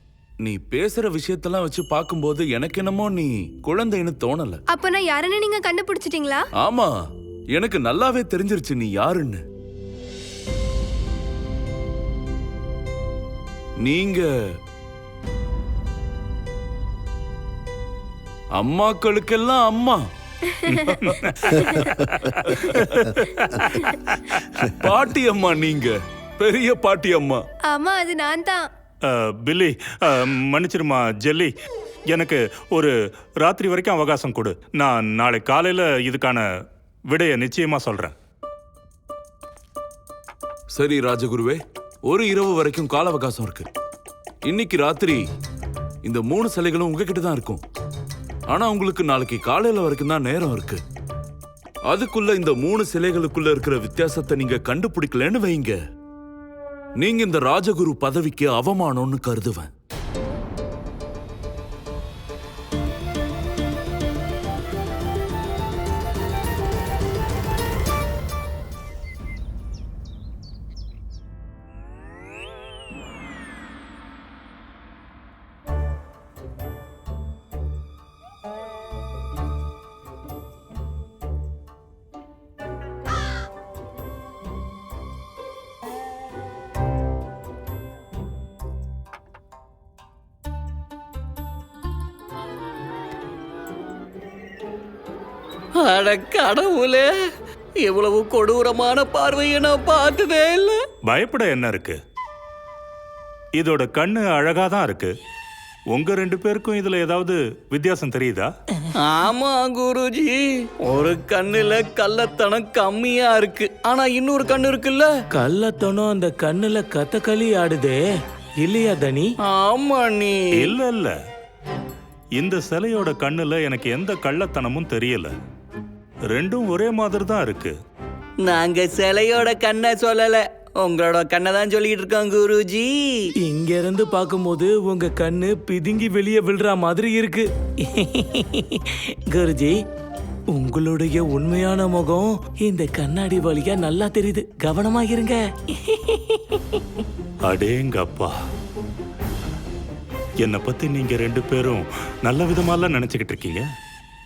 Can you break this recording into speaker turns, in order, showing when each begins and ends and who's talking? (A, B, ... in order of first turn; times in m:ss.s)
0:00.4-0:04.6 A
0:04.7-0:06.4 B
0:06.6-0:06.9 A
0:07.5-0:09.4 A
0:13.8-0:14.3 A
0:18.6-0:20.0 A
0:20.7-0:24.7 C
0:21.0-0:21.8 A
0:22.4-0:23.0 A
0:24.6-0:27.4 A
0:27.7-0:28.7 B
0:29.0-0:31.5 C
0:32.1-0:36.4 C
0:37.1-0:38.1 C
0:40.8-0:43.7 A
0:44.4-0:45.2 A
0:46.0-0:47.6 A
0:48.5-0:50.8 A
0:51.9-0:55.8 A
0:57.0-0:59.7 A
1:35.8-1:37.1 D
1:37.8-1:40.8 D
1:41.1-1:42.0 C
1:43.6-1:45.1 C
1:45.9-1:48.5 C
1:49.0-1:55.1 D
1:55.4-1:58.0 E
1:58.6-1:59.3 E
1:59.5-2:00.7 D
2:00.5-2:01.2 C
2:02.4-2:05.3 C
2:06.3-2:07.8 C
2:08.4-2:13.3 D
2:13.4-2:19.8 E
2:20.5-2:26.4 E
2:27.5-2:28.3 C
2:30.4-2:33.6 C